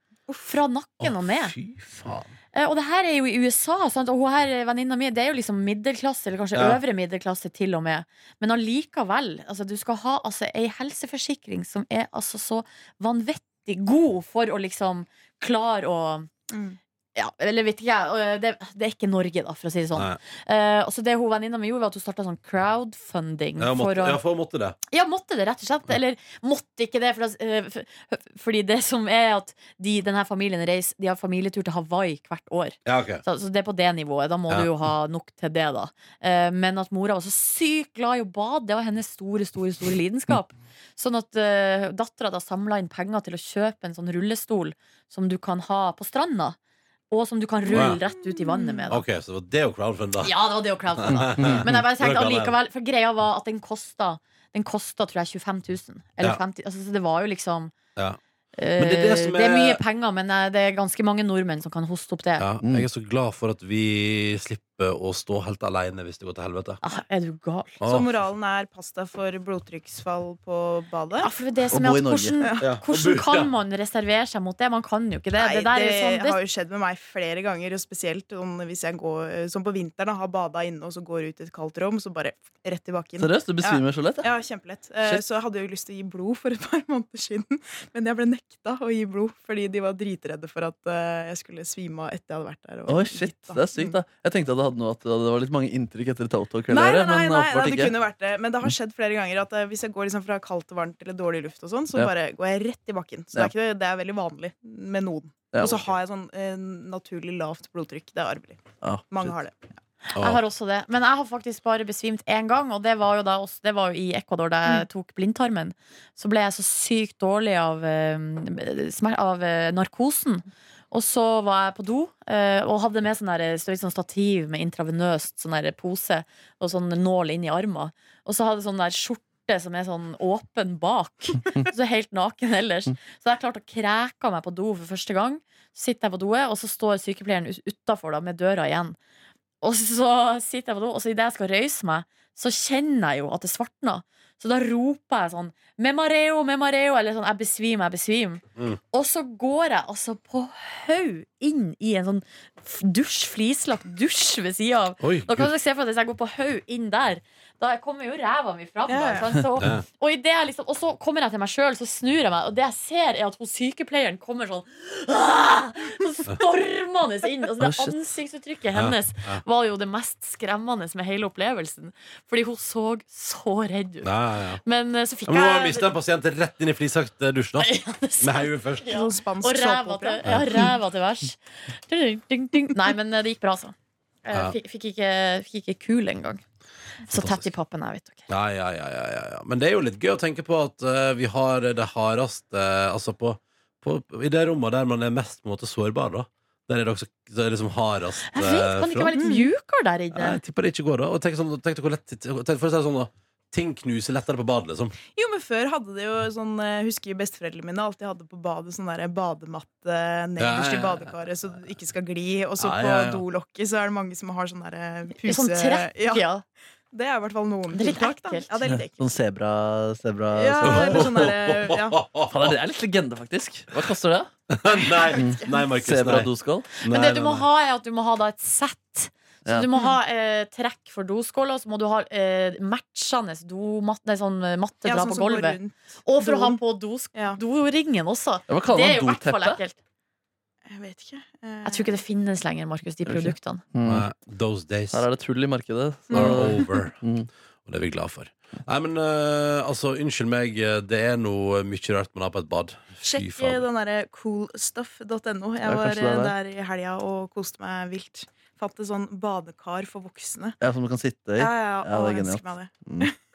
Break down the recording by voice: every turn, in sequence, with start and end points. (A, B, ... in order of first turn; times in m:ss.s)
0:00.3-0:00.5 A
0:00.5-0:01.6 B
0:01.0-0:02.3 C
0:02.5-0:16.3 B
0:06.5-0:06.8 C
0:16.5-0:16.8 A
0:17.1-0:24.2 B
0:19.9-0:20.2 C
0:23.6-0:24.8 C
0:24.9-0:46.6 B
0:32.8-0:33.2 C
0:47.1-0:49.0 B
0:47.7-0:48.0 C
0:48.1-0:48.8 A
0:48.9-0:50.3 C
0:50.2-0:57.7 B
0:51.0-0:52.6 C
0:51.1-0:51.8 D
0:58.6-1:02.5 B
0:58.8-0:59.8 C
1:02.4-1:06.8 C
1:02.6-1:02.9 D
1:06.8-1:07.8 B
1:07.8-1:08.1 C
1:07.8-1:11.3 A
1:11.2-1:16.4 B
1:11.7-1:12.3 D
1:12.6-1:13.5 C
1:15.3-1:34.0 A
1:23.2-1:24.3 D
1:32.9-1:37.9 D
1:36.7-1:49.6 A
1:45.5-1:45.8 D
1:48.8-1:49.3 D
1:50.1-2:19.0 B
1:50.1-1:50.4 C
2:19.6-2:54.1 B
2:35.0-2:35.5 C
2:38.9-2:39.3 A
2:47.6-2:48.0 D
2:48.7-2:49.4 C
2:54.0-2:54.6 C
2:54.6-2:55.9 B
2:55.2-2:58.8 C
2:57.6-3:06.4 B
2:58.8-3:00.7 A
3:00.2-3:00.6 C
3:07.1-3:08.3 B
3:07.1-3:07.5 C
3:08.3-3:19.1 C
3:18.3-3:20.4 B
3:19.1-3:19.5 A
3:20.1-3:25.0 C
3:25.1-3:36.2 A
3:30.4-3:31.1 C
3:32.6-3:33.2 C
3:35.2-3:36.4 B
3:36.9-3:39.1 A
3:37.7-3:38.5 B
3:38.7-3:41.3 D
3:40.3-3:42.0 A
3:40.6-3:42.6 C
3:42.3-3:44.3 D
3:44.5-3:47.5 C
3:44.7-3:45.6 A
3:45.2-3:46.7 D
3:46.8-3:59.8 B
3:54.8-3:56.6 A
3:57.1-3:57.4 A
3:58.5-3:59.6 D
4:00.7-4:02.0 A
4:01.6-4:03.6 B
4:03.0-4:04.0 D
4:03.8-4:05.1 C
4:04.9-4:07.3 D
4:06.1-4:06.6 A
4:06.1-4:07.0 C
4:07.6-4:13.6 C
4:13.0-4:20.6 A
4:15.6-4:16.3 D
4:20.6-4:23.1 D
4:21.4-4:23.1 A